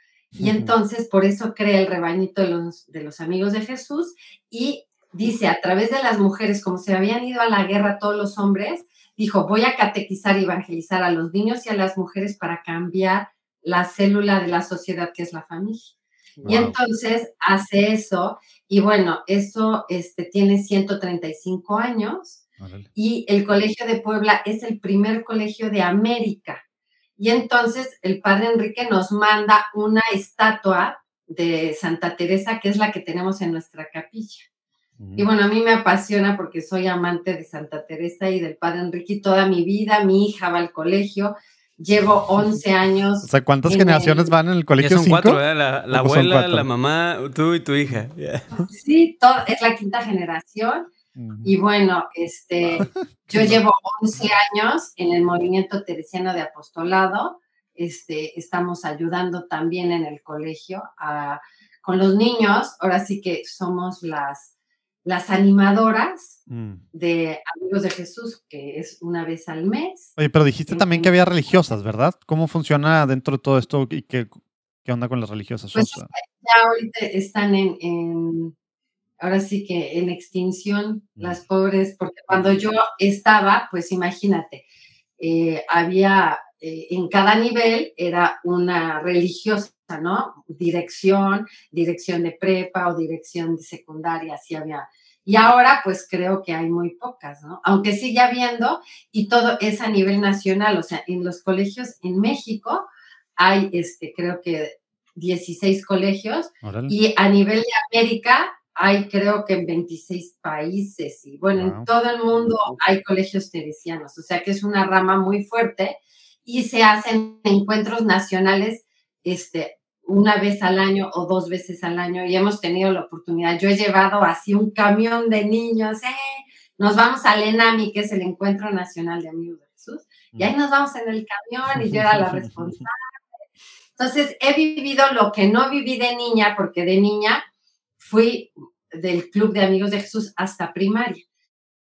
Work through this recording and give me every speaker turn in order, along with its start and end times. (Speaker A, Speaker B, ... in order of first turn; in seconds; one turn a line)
Speaker A: 0.4-0.7
Speaker B: 0.4-15.9
Speaker A: 16.4-16.8
Speaker B: 16.4-22.4
Speaker A: 22.6-22.9
Speaker B: 23.0-26.6
Speaker B: 27.2-34.5
Speaker A: 35.0-35.3
Speaker B: 35.2-44.4
Speaker A: 43.2-45.4
Speaker C: 44.8-48.5
Speaker A: 45.9-46.7
Speaker B: 48.7-50.9
Speaker A: 51.2-51.5
Speaker B: 51.4-64.5
Speaker A: 52.8-53.6
Speaker B: 65.0-66.4
Speaker A: 66.5-66.8
Speaker B: 66.9-70.2
Speaker A: 70.2-76.1
Speaker B: 70.7-71.1
Speaker B: 75.7-78.5
Speaker B: 79.2-84.7
Speaker A: 82.3-82.6
Speaker B: 85.2-133.0
Speaker A: 106.6-106.9
Speaker A: 111.6-111.9
Speaker A: 131.8-132.8
Speaker B: 134.0-137.4
Speaker B: 138.0-141.2